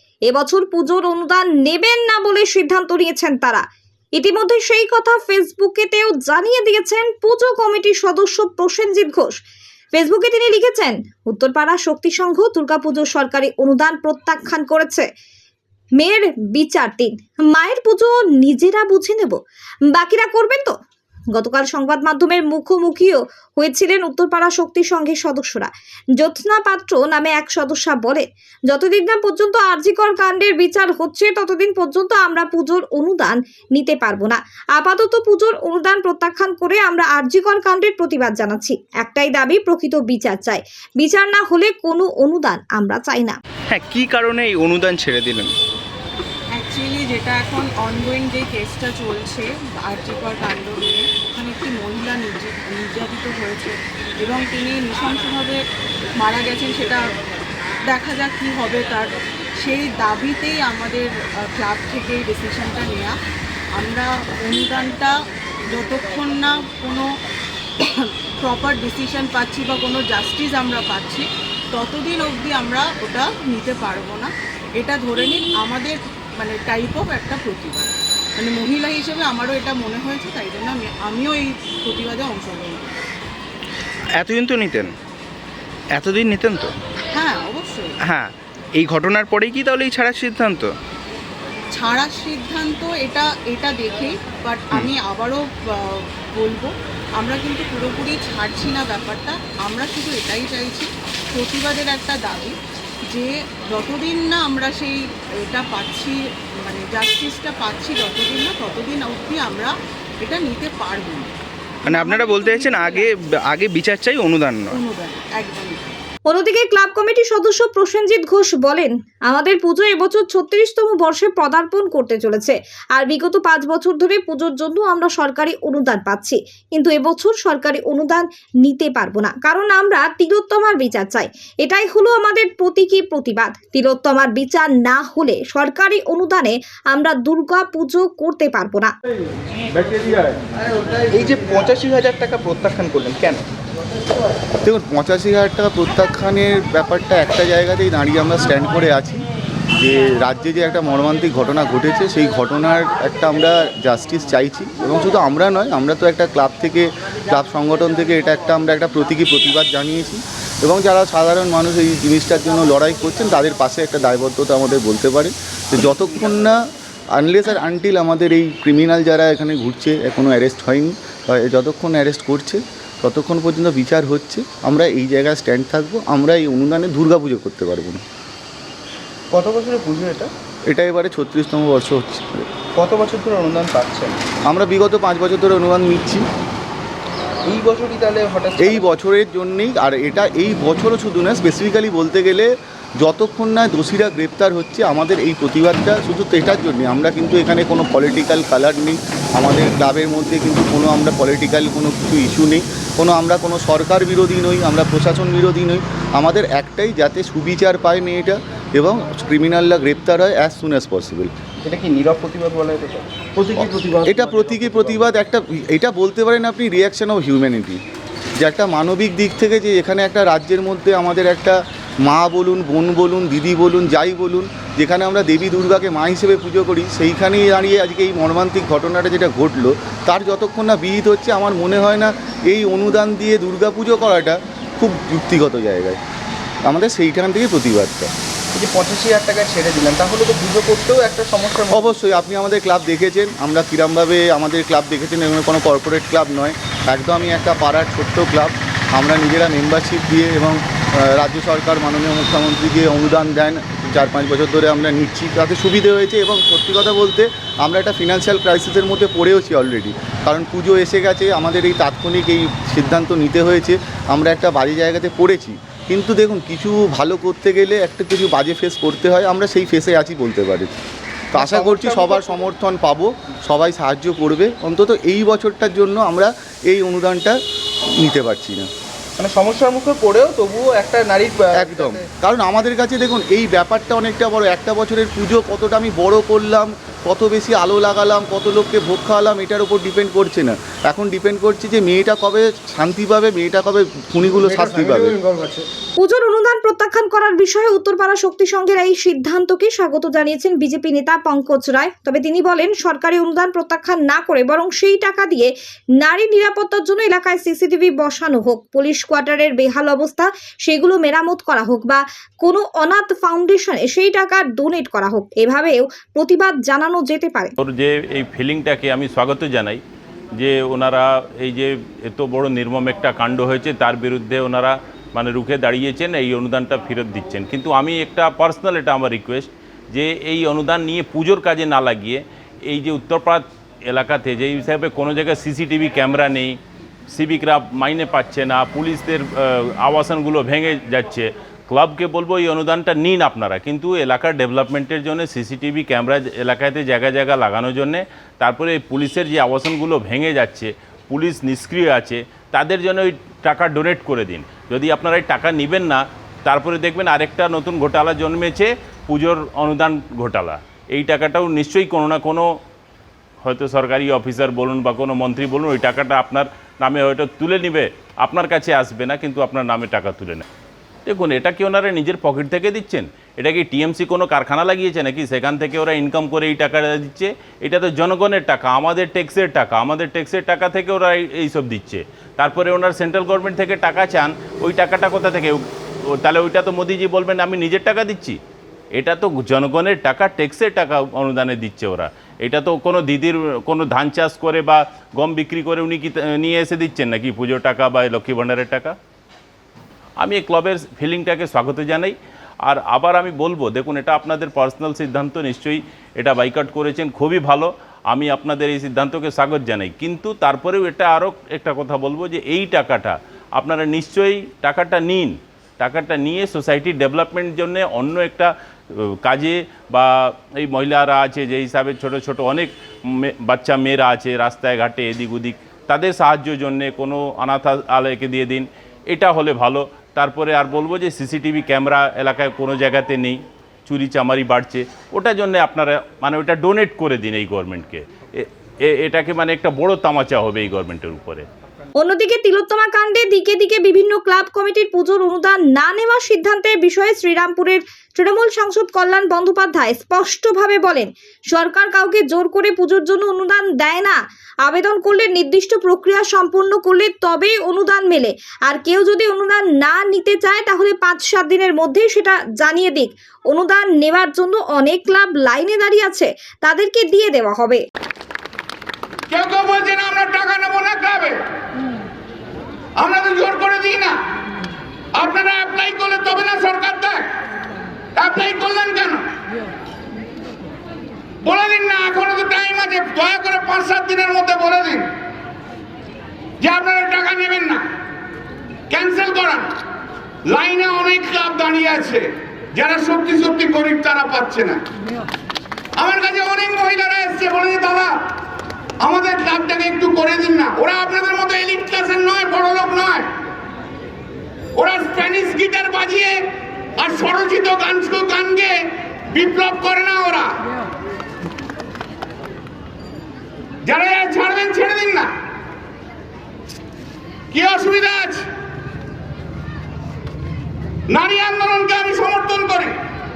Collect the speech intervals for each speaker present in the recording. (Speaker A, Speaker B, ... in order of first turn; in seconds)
Speaker A: 0.3-3.6, 4.2-9.4, 9.9-15.1, 16.0-19.4, 19.9-20.7, 21.3-43.4, 116.3-138.9, 296.0-317.5, 442.0-467.8
Speaker B: 43.7-45.5, 84.2-84.9, 85.9-86.8, 88.1-90.7, 111.8-114.8, 141.1-143.4, 179.3-180.3, 182.8-184.2, 187.5-188.9, 211.6-214.9, 238.5-242.0, 271.3-272.5, 279.2-282.1
Speaker C: 46.6-55.6, 56.2-57.1, 57.9-63.2, 63.8-65.2, 65.7-67.1, 67.8-82.9, 87.1-88.0, 91.7-102.6, 103.1-111.3, 111.9-113.1, 114.7-116.0
Speaker D: 144.6-149.3, 149.8-166.6, 167.2-178.0, 180.7-182.5, 184.5-186.2, 188.6-211.3, 213.6-217.8, 218.4-236.0, 236.7-238.1, 241.7-270.7, 271.3-277.4, 278.0-278.7, 281.5-295.4
Speaker E: 317.6-319.8, 320.4-336.6, 337.1-362.5, 363.4-370.4, 371.1-388.4, 388.9-398.9, 400.2-441.5
Speaker F: 469.3-471.4, 473.0-474.1, 475.2-477.2, 478.2-479.2, 481.4-485.1, 486.6-487.8, 488.9-489.7, 490.5-494.8, 496.0-498.1, 499.0-503.3, 504.8-506.4, 507.0-510.6, 513.9-515.3, 517.5-518.5, 521.1-523.0